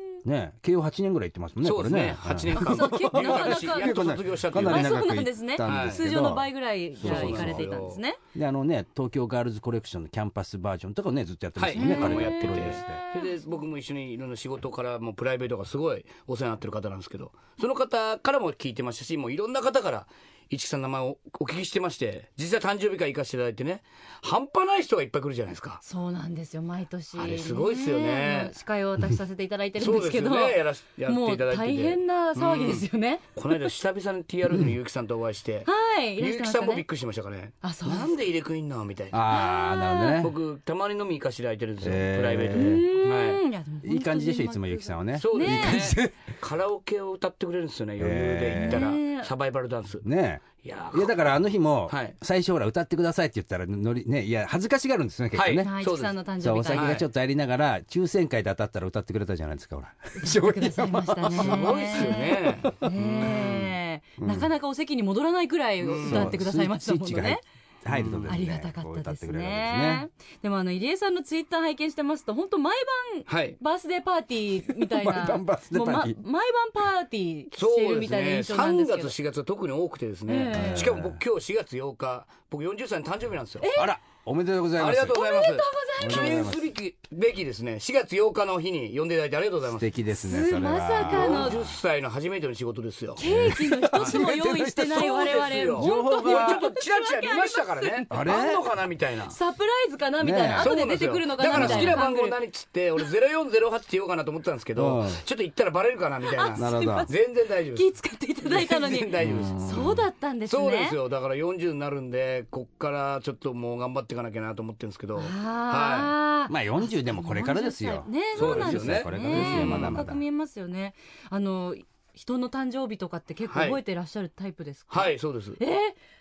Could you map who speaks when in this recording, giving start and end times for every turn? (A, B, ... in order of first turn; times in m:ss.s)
0:00.2-0:07.7 A
0:01.6-0:05.0 B
0:02.5-0:08.2 C
0:05.6-0:06.0 B
0:07.0-0:08.0 B
0:08.4-0:13.0 A
0:11.6-0:25.8 B
0:11.8-0:13.4 C
0:25.8-0:33.6 C
0:27.2-0:28.5 B
0:29.8-0:39.2 B
0:35.6-0:36.8 C
0:37.6-0:38.2 C
0:39.1-0:40.4 A
0:39.3-0:40.2 C
0:40.2-0:43.4 B
0:41.8-0:42.9 A
0:42.5-0:45.9 C
0:43.8-0:46.3 A
0:45.2-0:50.0 B
0:48.0-0:48.9 A
0:48.6-0:49.3 C
0:50.0-0:55.7 A
0:50.6-0:51.3 B
0:51.9-0:52.2 B
0:55.3-0:56.2 B
0:55.6-0:56.9 C
0:56.4-1:04.5 A
0:56.7-0:57.0 B
1:00.2-1:07.4 C
1:01.4-1:02.8 B
1:05.8-1:06.4 B
1:06.0-1:10.1 A
1:07.9-1:08.4 B
1:08.3-1:19.2 C
1:13.3-1:13.6 B
1:14.7-1:16.2 A
1:17.5-1:23.7 B
1:20.3-1:20.9 C
1:20.5-1:21.2 A
1:23.6-1:23.9 C
1:23.8-1:25.2 A
1:24.8-1:29.9 B
1:25.1-1:26.5 C
1:26.0-1:26.7 A
1:29.7-1:31.8 A
1:30.1-1:31.6 C
1:31.0-1:33.2 B
1:33.2-1:38.5 C
1:33.3-1:36.6 A
1:33.9-1:34.2 B
1:34.9-1:39.4 B
1:38.1-1:38.6 A
1:39.3-1:42.4 C
1:40.2-1:40.7 A
1:40.5-1:47.9 B
1:41.5-1:42.1 A
1:44.8-1:45.2 A
1:46.3-1:47.2 C
1:46.6-1:47.1 A
1:47.7-1:51.0 C
1:48.4-1:49.6 B
1:49.2-1:50.1 A
1:50.5-1:56.1 B
1:55.2-2:06.0 C
1:56.5-2:00.2 A
1:58.3-2:00.0 B
2:03.5-2:03.8 B
2:04.9-2:05.6 B